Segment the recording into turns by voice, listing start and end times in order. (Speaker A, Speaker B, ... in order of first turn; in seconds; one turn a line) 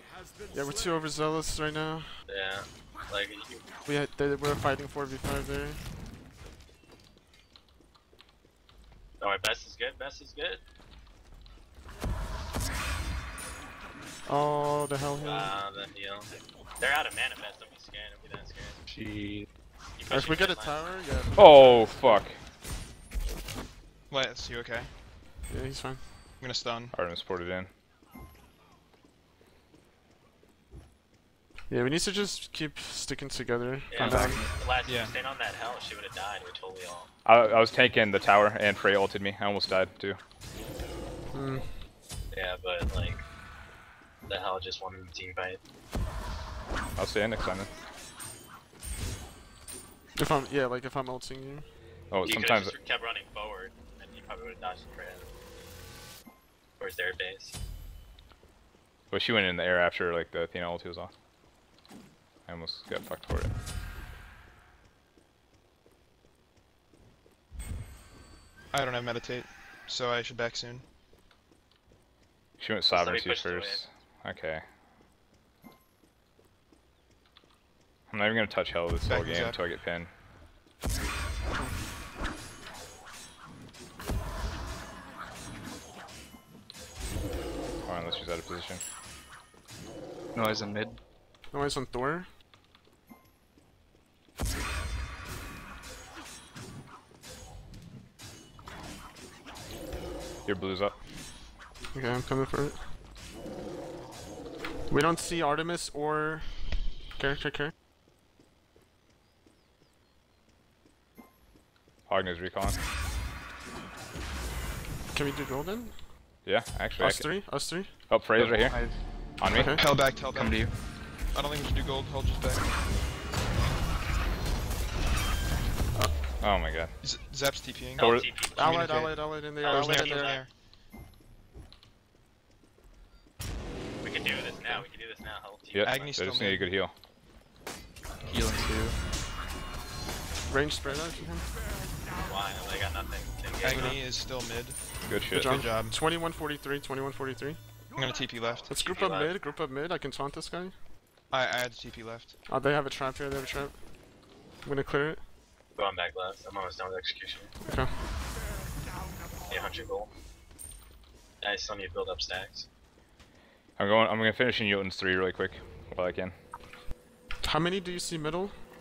Speaker A: 0.5-2.1
Speaker B: 2.3-3.6
Speaker A: 3.9-5.8
Speaker B: 9.2-10.6
Speaker A: 14.3-15.5
Speaker B: 15.2-18.8
Speaker C: 18.9-19.5
Speaker B: 20.0-20.9
Speaker A: 20.1-22.2
Speaker D: 21.4-22.4
Speaker E: 24.1-24.9
Speaker A: 25.5-26.0
Speaker E: 26.4-26.9
Speaker D: 26.9-27.7
Speaker A: 31.7-34.4
Speaker B: 33.9-37.1
Speaker C: 34.0-34.5
Speaker E: 34.9-35.1
Speaker D: 37.2-40.2
Speaker A: 41.3-41.7
Speaker B: 42.3-43.2
Speaker B: 44.3-45.6
Speaker D: 47.0-47.7
Speaker A: 50.1-51.7
Speaker D: 52.1-52.8
Speaker B: 52.2-55.3
Speaker B: 56.8-57.5
Speaker D: 59.1-61.1
Speaker D: 62.5-63.5
Speaker E: 68.7-70.8
Speaker D: 72.6-74.6
Speaker B: 72.9-73.8
Speaker D: 78.1-80.1
Speaker E: 79.1-79.6
Speaker D: 87.8-88.8
Speaker C: 90.3-91.0
Speaker A: 91.5-92.3
Speaker D: 100.5-101.0
Speaker A: 101.9-102.8
Speaker A: 104.9-107.7
Speaker D: 112.1-112.8
Speaker A: 115.1-116.0
Speaker D: 116.5-117.5
Speaker A: 117.0-117.9
Speaker D: 118.1-118.8
Speaker C: 118.3-119.0
Speaker D: 119.4-119.8
Speaker A: 119.5-119.8
Speaker E: 119.8-120.6
Speaker C: 120.3-120.7
Speaker E: 121.3-122.7
Speaker D: 126.4-126.9
Speaker E: 127.0-130.5
Speaker B: 128.0-128.8
Speaker D: 128.0-128.3
Speaker A: 128.6-130.4
Speaker B: 129.4-130.4
Speaker B: 134.0-136.2
Speaker D: 135.7-136.9
Speaker E: 135.8-136.7
Speaker C: 138.2-139.0
Speaker A: 140.5-141.5
Speaker B: 142.2-144.0
Speaker E: 143.6-144.8
Speaker D: 145.1-145.6
Speaker E: 145.3-146.0
Speaker A: 145.3-147.6
Speaker E: 148.0-149.0
Speaker B: 148.5-149.3
Speaker A: 148.7-150.8
Speaker E: 151.3-152.3
Speaker A: 152.5-153.8
Speaker A: 154.6-155.2
Speaker B: 155.8-157.5
Speaker A: 157.7-157.9
Speaker B: 159.5-160.1
Speaker B: 161.4-162.7
Speaker D: 163.8-166.4
Speaker A: 167.4-168.5